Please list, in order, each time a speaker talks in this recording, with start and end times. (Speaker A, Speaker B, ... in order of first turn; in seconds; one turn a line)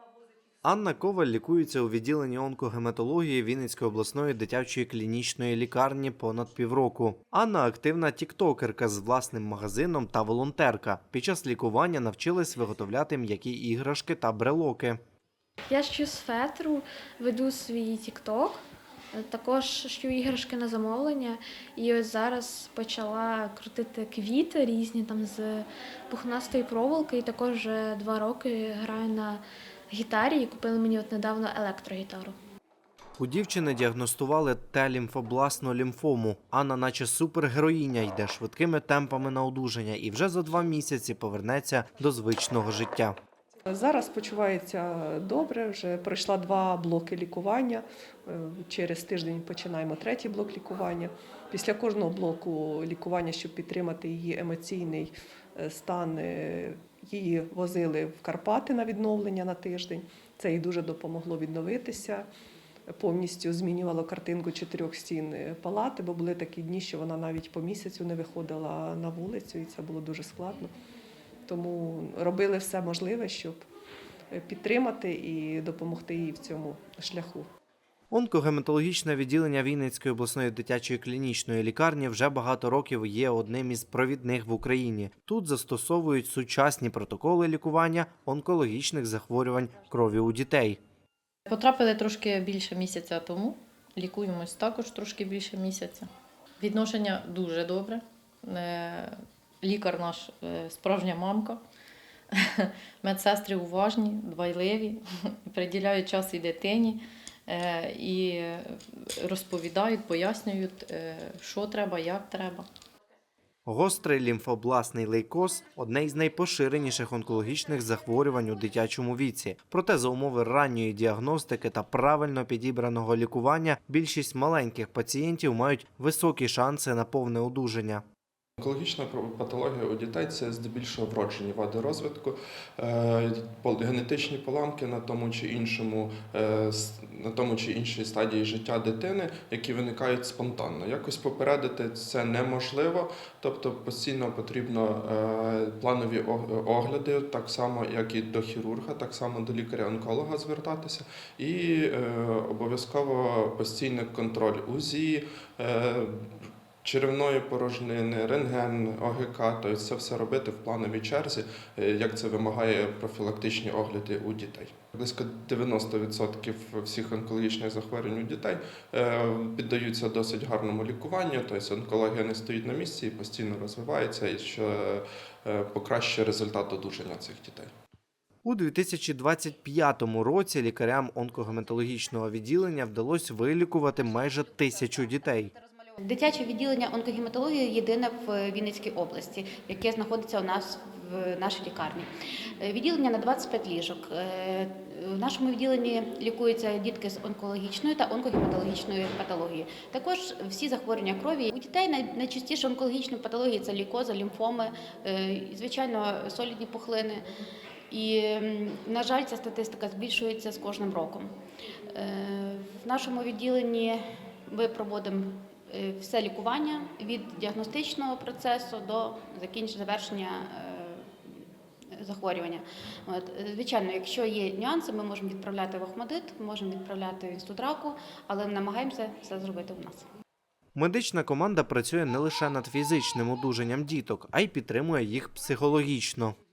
Speaker A: 0.6-15.0
Speaker B: 15.7-18.6
Speaker B: 19.1-32.3
Speaker A: 33.2-43.1
Speaker C: 43.7-62.3
Speaker C: 62.9-70.7
Speaker C: 71.5-73.6
Speaker C: 74.3-77.4
Speaker A: 78.1-90.8
Speaker D: 91.5-101.6
Speaker D: 102.5-112.7
Speaker A: 113.7-128.0
Speaker E: 128.6-177.7
Speaker A: 178.4-185.5
Speaker F: 186.0-207.3
Speaker F: 207.9-211.3
Speaker F: 211.9-230.1
Speaker A: 230.7-236.3